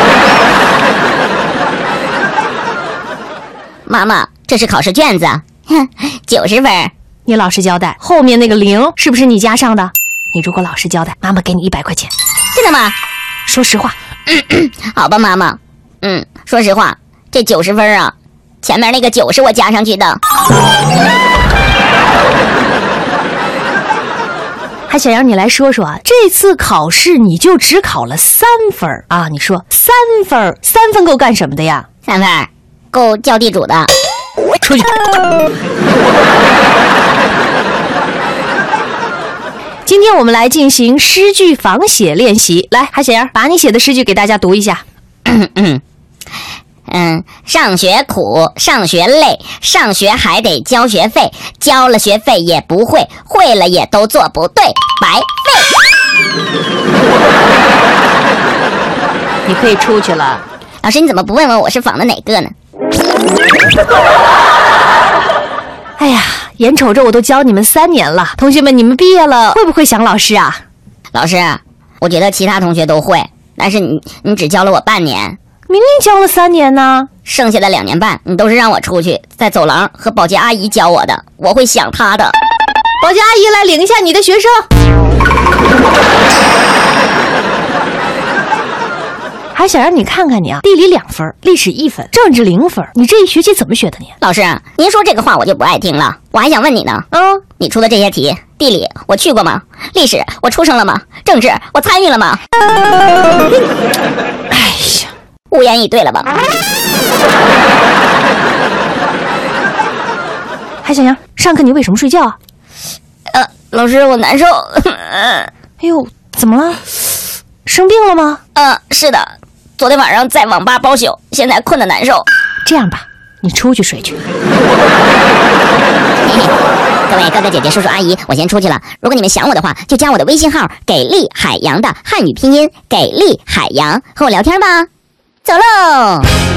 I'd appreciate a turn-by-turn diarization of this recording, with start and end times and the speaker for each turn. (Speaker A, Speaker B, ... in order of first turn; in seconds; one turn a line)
Speaker A: 3.9-6.9
Speaker B: 7.3-12.1
Speaker A: 12.5-12.9
Speaker B: 13.4-13.9
Speaker A: 14.3-20.2
Speaker B: 24.9-31.9
Speaker A: 32.1-33.9
Speaker B: 34.6-34.9
Speaker B: 39.9-44.8
Speaker A: 45.2-45.8
Speaker A: 46.9-55.7
Speaker B: 59.5-60.4
Speaker A: 60.8-62.5
Speaker B: 66.0-70.6
Speaker A: 71.1-75.4
Speaker B: 75.7-77.1
Speaker A: 77.2-82.3
Speaker B: 83.0-84.7
Speaker B: 89.5-94.1
Speaker A: 94.2-97.1
Speaker B: 97.1-97.4
Speaker A: 97.6-102.4
Speaker B: 104.5-105.1
Speaker A: 105.5-106.3
Speaker B: 110.8-112.4
Speaker A: 113.3-115.5
Speaker B: 115.8-116.9
Speaker B: 117.7-118.4
Speaker A: 118.6-122.3
Speaker B: 122.7-124.2
Speaker A: 126.2-126.6
Speaker A: 127.1-134.9
Speaker A: 135.4-136.3